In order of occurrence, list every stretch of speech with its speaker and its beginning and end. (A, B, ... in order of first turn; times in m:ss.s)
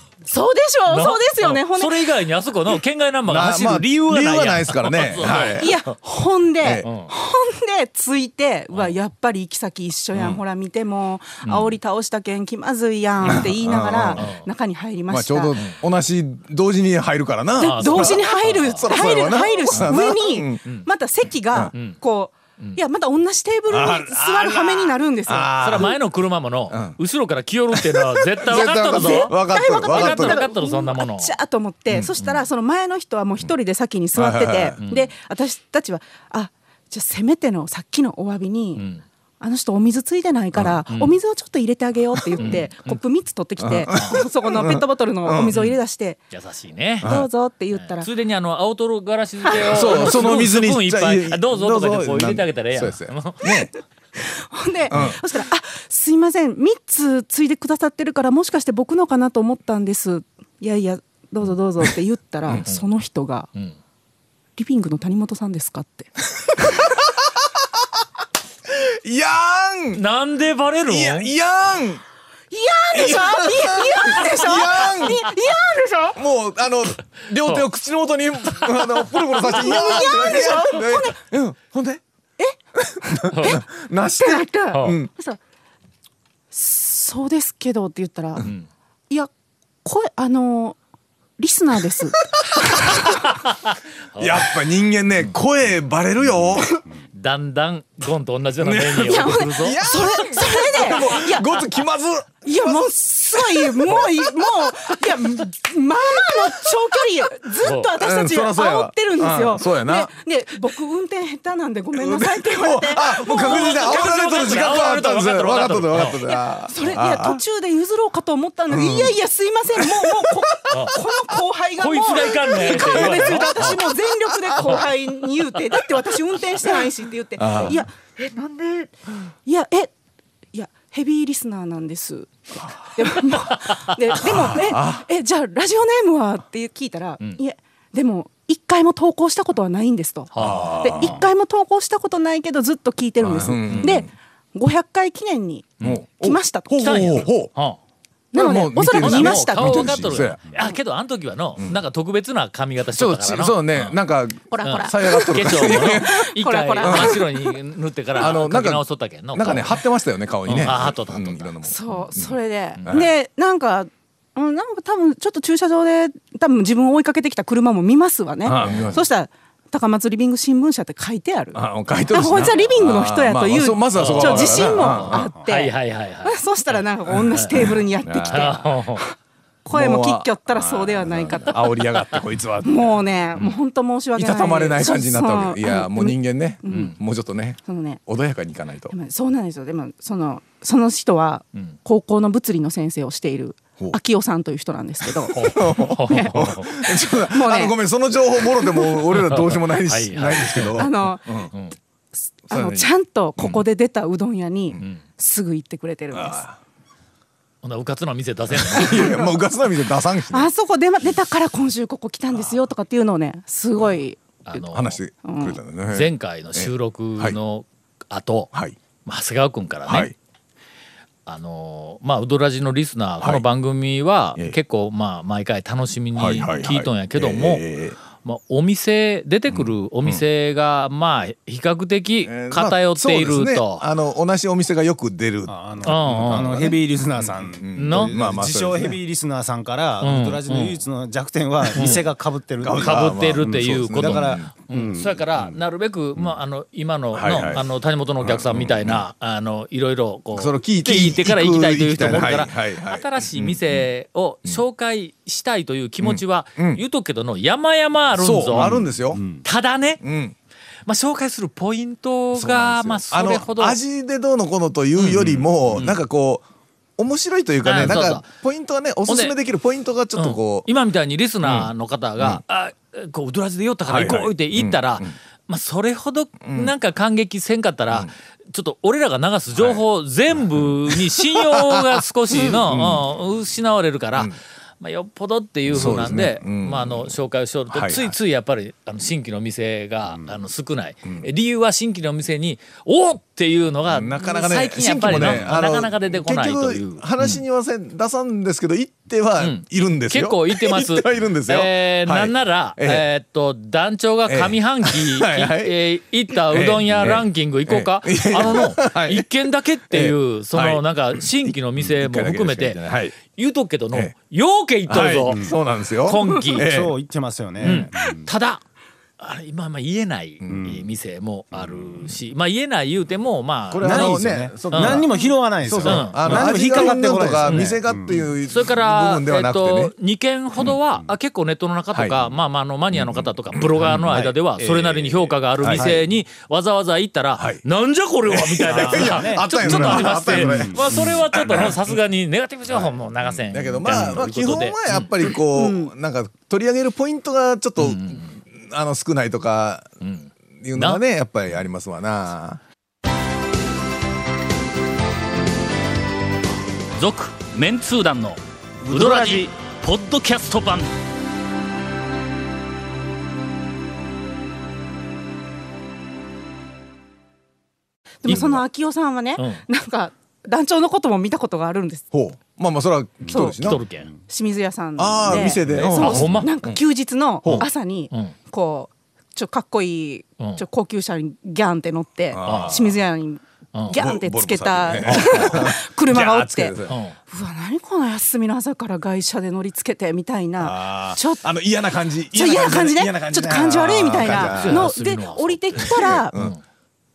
0:00.2-0:02.1 A
0:00.9-0:05.9 B
0:03.3-0:05.7 C
0:05.6-0:15.6 A
0:06.6-0:06.9 C
0:06.8-0:07.1 B
0:10.1-0:10.4 C
0:11.4-0:11.7 B
0:13.2-0:14.2 C
0:14.2-0:14.4 B
0:15.1-0:20.6 C
0:17.6-0:25.8 A
0:17.6-0:18.9 B
0:23.7-0:26.0 C
0:25.6-0:31.3 B
0:26.7-0:27.0 C
0:27.7-0:30.4 C
0:28.5-0:38.8 A
0:34.1-0:34.8 C
0:34.8-0:35.1 B
0:38.8-0:39.0 B
0:39.4-0:46.2 A
0:40.9-0:41.2 B
0:42.2-0:42.6 C
0:42.4-0:43.0 B
0:43.6-0:45.5 C
0:43.9-0:44.2 B
0:46.3-0:47.1 B
0:47.0-0:48.1 A
0:47.0-0:47.3 C
0:47.7-0:53.5 B
0:49.4-0:49.9 A
0:49.7-0:53.7 C
0:54.3-1:03.5 A
0:54.9-0:55.2 C
1:04.6-1:06.1 A
1:06.6-1:07.2 C
1:08.7-1:10.0 C
1:09.9-1:11.3 B
1:10.8-1:12.0 C
1:12.5-1:16.2 A
1:12.9-1:15.3 C
1:16.2-1:22.0 C
1:19.4-1:21.2 A
1:22.8-1:25.1 C
1:23.3-1:23.6 B
1:24.2-1:25.4 A
1:24.7-1:25.0 B
1:26.5-1:28.4 A
1:29.8-1:30.8 A
1:31.4-1:33.1 A
1:32.4-1:33.1 C
1:33.0-1:34.5 B
1:34.2-1:36.8 C
1:37.1-1:39.8 B
1:38.6-1:45.1 C
1:39.0-1:41.5 A
1:42.4-1:54.4 A
1:46.2-1:46.6 C
1:47.6-1:47.9 B
1:48.0-1:50.1 C
1:51.9-1:57.4 C
1:53.3-1:56.2 B
1:56.2-2:09.9 A
1:58.7-1:59.2 C
1:59.7-2:00.4 C
2:00.7-2:00.9 B
2:01.8-2:03.8 B
2:02.7-2:03.8 C
2:07.4-2:07.8 C
2:10.5-2:27.2 A
2:14.2-2:15.0 C
2:20.3-2:21.2 B
2:20.4-2:21.2 C
2:23.2-2:24.1 C
2:25.8-2:27.5 C
2:26.8-2:27.8 B
2:28.3-2:30.0 A
2:28.3-2:30.4 C
2:29.0-2:34.0 B
2:32.9-2:36.3 C
2:34.5-2:37.5 A
2:34.6-2:39.8 B
2:36.8-2:37.2 C
2:38.2-2:43.1 C
2:40.4-2:41.5 B
2:41.6-3:01.9 A
2:48.4-2:49.0 C
2:51.5-2:55.3 C
2:53.9-2:56.4 B
2:57.5-2:58.7 C
2:58.3-2:59.0 B
2:59.7-3:03.0 C
3:02.6-3:07.0 A
3:04.2-3:08.9 C
3:07.7-3:08.0 A
3:08.9-3:17.8 A
3:15.2-3:21.5 C
3:15.3-3:16.7 B
3:18.6-3:18.9 A
3:19.1-3:20.9 B
3:20.8-3:21.2 A
3:22.5-3:26.4 A
3:22.5-3:22.9 C
3:26.1-3:26.6 C
3:27.6-3:29.1 B
3:28.5-3:30.5 C
3:28.8-3:29.3 A
3:30.3-3:34.4 A
3:34.4-3:35.0 B
3:34.7-3:37.4 C
3:35.2-3:35.6 A
3:35.9-3:38.5 B
3:39.0-3:40.1 B
3:39.9-3:40.1 C
3:41.2-3:47.6 B
3:46.2-3:48.0 C
3:48.2-3:53.8 B
3:49.5-3:50.2 C
3:52.2-3:59.0 C
3:55.5-4:05.6 D
3:55.8-3:56.7 B
3:57.8-3:58.1 B
4:00.0-4:00.8 B
4:01.7-4:02.0 B
4:02.6-4:04.5 C
4:02.8-4:18.8 B
4:07.1-4:07.7 C
4:08.2-4:09.0 C
4:10.3-4:13.9 C
4:16.0-4:16.8 C
4:18.1-4:19.2 C
4:18.6-4:19.4 D
4:19.4-4:20.0 B
4:20.0-4:20.3 C
4:20.8-4:23.8 B
4:22.3-4:26.4 C
4:25.0-4:26.0 B
4:27.0-4:30.7 C
4:27.6-4:28.3 B
4:29.1-4:29.3 B
4:30.2-4:57.4 B
4:31.4-4:32.4 C
4:33.8-4:35.1 C
4:36.4-4:36.7 C
4:39.6-4:39.8 C
4:40.3-4:43.0 C
4:45.7-4:47.1 C
4:47.7-4:48.1 C
4:53.9-5:03.0 C
4:59.4-5:16.7 B
5:04.3-5:05.8 C
5:06.3-5:09.3 C
5:09.9-5:13.2 C
5:14.9-5:17.0 C
5:16.6-5:18.3 D
5:17.6-5:18.6 B
5:19.2-5:25.1 B
5:20.4-5:20.8 D
5:21.5-5:22.1 D
5:23.7-5:29.9 C
5:23.8-5:28.3 D
5:25.8-5:45.1 B
5:31.9-5:32.2 C
5:32.9-5:34.0 C
5:33.8-5:36.1 D
5:35.6-5:35.9 C
5:37.4-5:37.6 C
5:38.3-5:41.9 C
5:38.7-5:41.0 D
5:42.7-5:49.9 C
5:45.5-5:45.9 A
5:47.8-5:48.3 B
5:50.0-5:51.0 B
5:50.6-5:52.6 C
5:57.0-6:00.9 B
5:58.9-5:59.4 D
6:08.2-6:12.0 A
6:08.3-6:08.6 C
6:09.4-6:09.6 B
6:12.1-6:13.8 C
6:13.3-6:13.6 A
6:13.3-6:14.1 B
6:14.3-6:31.5 A
6:15.0-6:16.8 C
6:15.6-6:16.5 B
6:17.4-6:17.7 C
6:17.4-6:18.3 B
6:22.3-6:23.0 C
6:22.4-6:22.8 B
6:23.7-6:24.0 B
6:23.9-6:27.0 C
6:25.0-6:25.6 B
6:26.9-6:27.2 B
6:30.6-6:34.9 C
6:32.3-6:36.4 A
6:34.2-6:36.6 B
6:35.8-6:36.5 C